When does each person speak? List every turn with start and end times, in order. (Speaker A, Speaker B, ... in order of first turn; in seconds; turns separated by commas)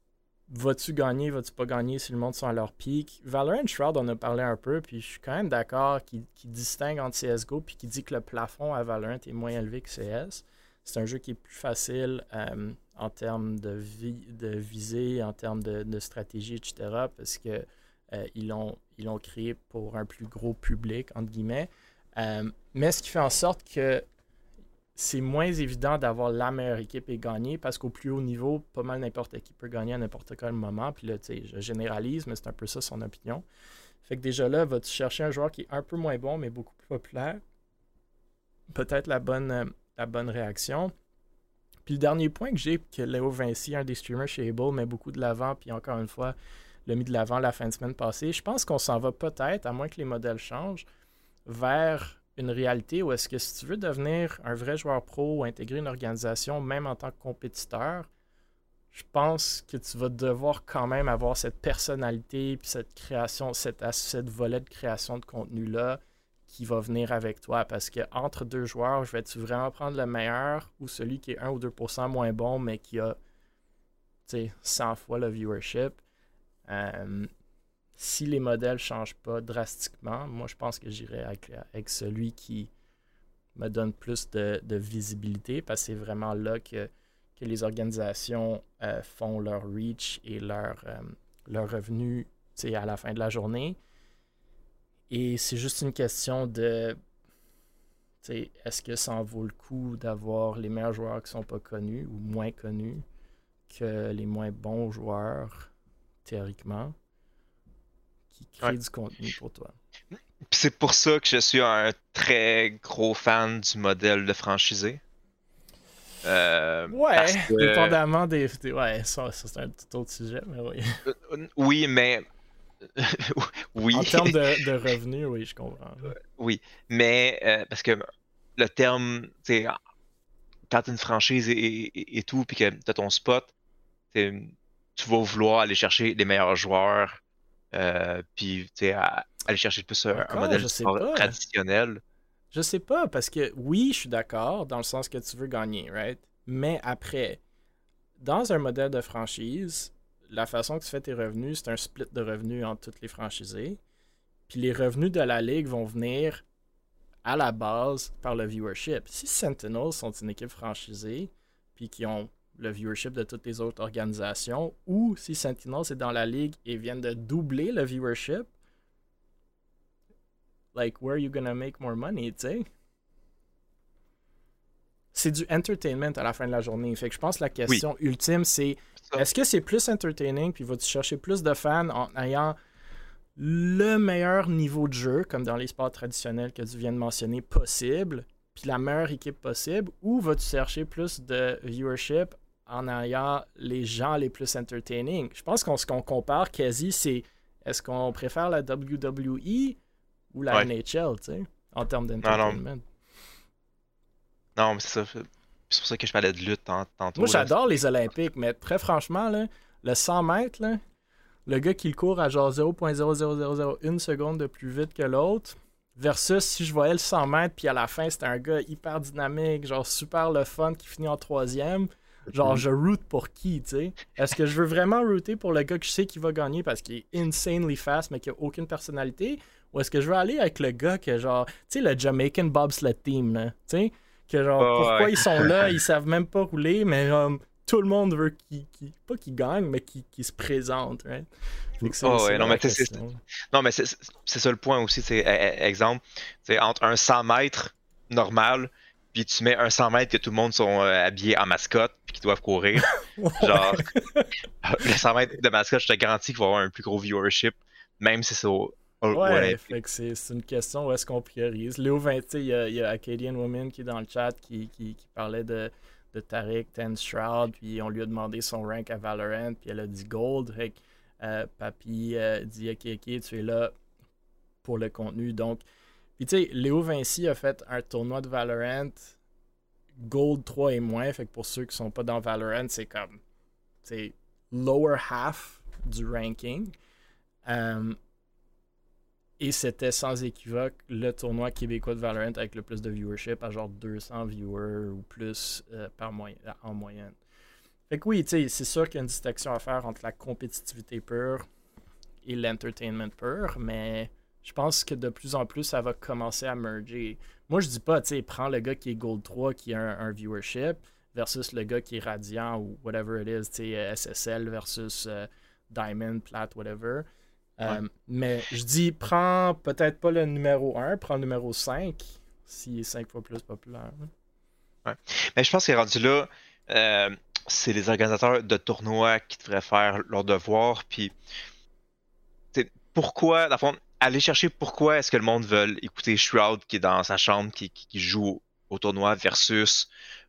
Speaker A: 0.5-24.0, Speaker A: 24.9-33.4, Speaker A: 34.0-37.4, Speaker A: 38.7-40.9, Speaker A: 41.9-46.3, Speaker A: 46.9-50.8, Speaker A: 51.5-58.1, Speaker A: 58.9-73.2, Speaker A: 74.2-76.0, Speaker A: 76.7-77.3, Speaker A: 78.0-82.7, Speaker A: 83.5-93.8, Speaker A: 95.1-97.0, Speaker A: 98.2-103.0, Speaker A: 103.7-105.7, Speaker A: 106.2-106.9, Speaker A: 108.3-109.7, Speaker B: 110.5-115.0, Speaker B: 116.2-118.0, Speaker A: 116.9-121.0, Speaker B: 121.1-122.2, Speaker B: 123.0-124.3, Speaker A: 123.9-126.1, Speaker B: 126.3-128.1, Speaker B: 128.6-129.8, Speaker B: 130.7-133.5, Speaker B: 134.1-137.2, Speaker B: 137.7-142.0, Speaker A: 140.1-141.4, Speaker A: 142.5-147.4, Speaker A: 148.2-153.8, Speaker A: 154.5-156.4, Speaker A: 157.2-168.5, Speaker A: 170.7-172.7, Speaker A: 175.1-182.6, Speaker A: 183.4-199.8, Speaker A: 200.3-202.8, Speaker B: 202.2-202.6, Speaker B: 204.6-207.5, Speaker A: 207.2-210.8, Speaker A: 211.4-241.3, Speaker B: 234.6-235.5, Speaker A: 241.8-243.2, Speaker B: 241.9-243.0, Speaker B: 243.5-253.9, Speaker A: 252.9-254.3, Speaker B: 254.6-259.7, Speaker A: 259.1-273.7, Speaker A: 274.6-275.6, Speaker A: 276.2-279.1, Speaker A: 280.0-283.2, Speaker A: 283.8-286.7, Speaker A: 287.4-288.0, Speaker A: 289.4-297.2, Speaker A: 297.9-301.4, Speaker A: 302.2-317.1, Speaker A: 317.6-324.1, Speaker B: 324.8-331.1, Speaker B: 332.5-339.9